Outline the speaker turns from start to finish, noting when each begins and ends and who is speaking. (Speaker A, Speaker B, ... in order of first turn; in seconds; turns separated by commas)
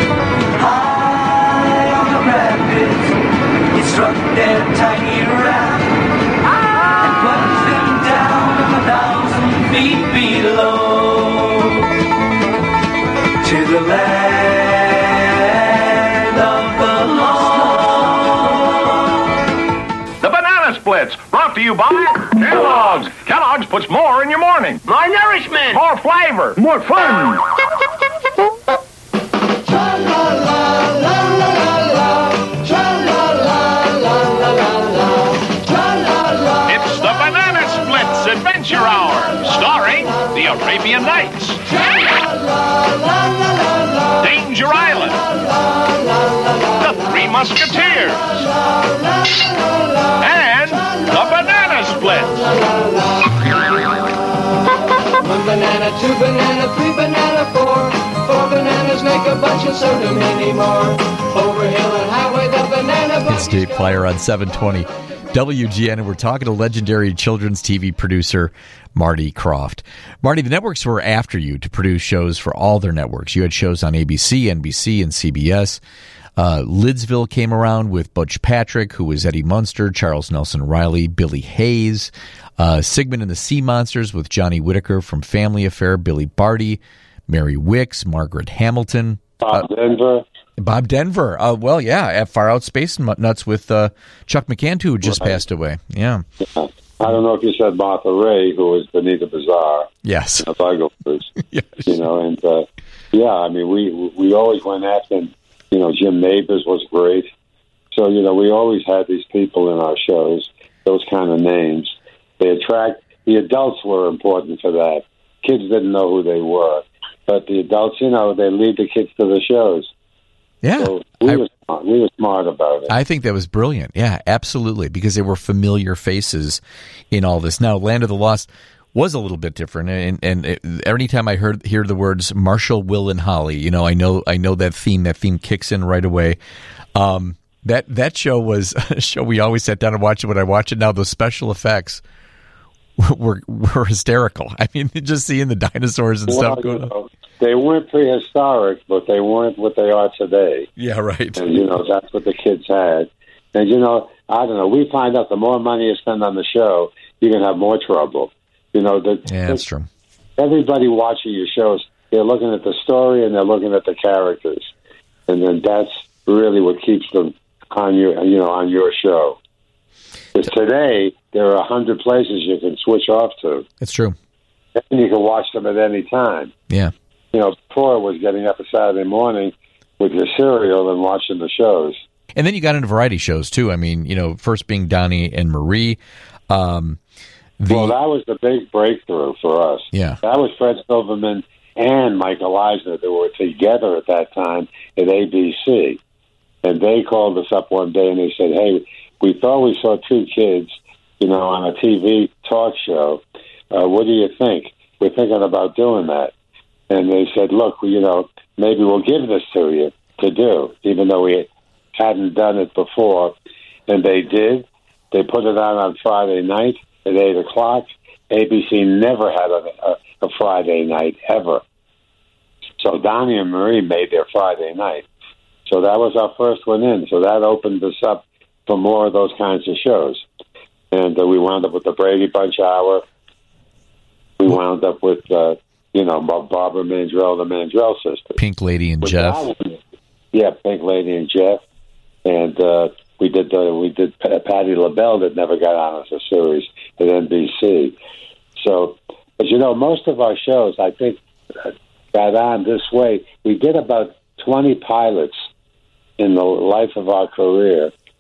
Speaker A: 0.6-3.1, Speaker A: 3.7-5.9, Speaker A: 6.5-11.9, Speaker A: 13.4-18.8, Speaker B: 20.2-27.5, Speaker B: 36.7-41.7, Speaker B: 44.2-45.2, Speaker B: 46.8-48.2, Speaker B: 50.2-52.5, Speaker C: 52.7-53.4, Speaker C: 55.1-63.8, Speaker D: 63.2-75.8, Speaker D: 76.4-89.7, Speaker E: 89.4-90.2, Speaker D: 90.6-96.2, Speaker E: 95.1-95.4, Speaker E: 96.4-101.3, Speaker D: 100.0-100.5, Speaker D: 101.4-101.9, Speaker E: 101.9-107.3, Speaker E: 107.9-119.9, Speaker D: 120.6-121.4, Speaker E: 120.8-122.9, Speaker D: 122.9-136.4, Speaker D: 136.9-142.0, Speaker D: 143.0-146.9, Speaker E: 146.3-150.7, Speaker D: 150.8-151.4, Speaker E: 151.4-159.6, Speaker D: 159.3-159.9, Speaker E: 160.4-164.7, Speaker E: 165.3-169.4, Speaker E: 170.3-173.7, Speaker D: 173.8-174.2, Speaker E: 174.8-176.5, Speaker E: 177.3-182.0, Speaker D: 182.4-187.0, Speaker D: 187.6-187.9, Speaker E: 187.7-196.0, Speaker D: 189.9-190.2, Speaker E: 196.6-206.3, Speaker E: 206.9-213.4, Speaker E: 213.9-221.6, Speaker E: 222.8-225.1, Speaker E: 225.7-230.2, Speaker E: 230.9-233.0, Speaker E: 234.4-238.4, Speaker D: 238.4-239.5, Speaker E: 239.0-239.7, Speaker E: 240.3-241.6, Speaker E: 242.2-247.9, Speaker E: 248.6-255.4, Speaker E: 256.2-257.9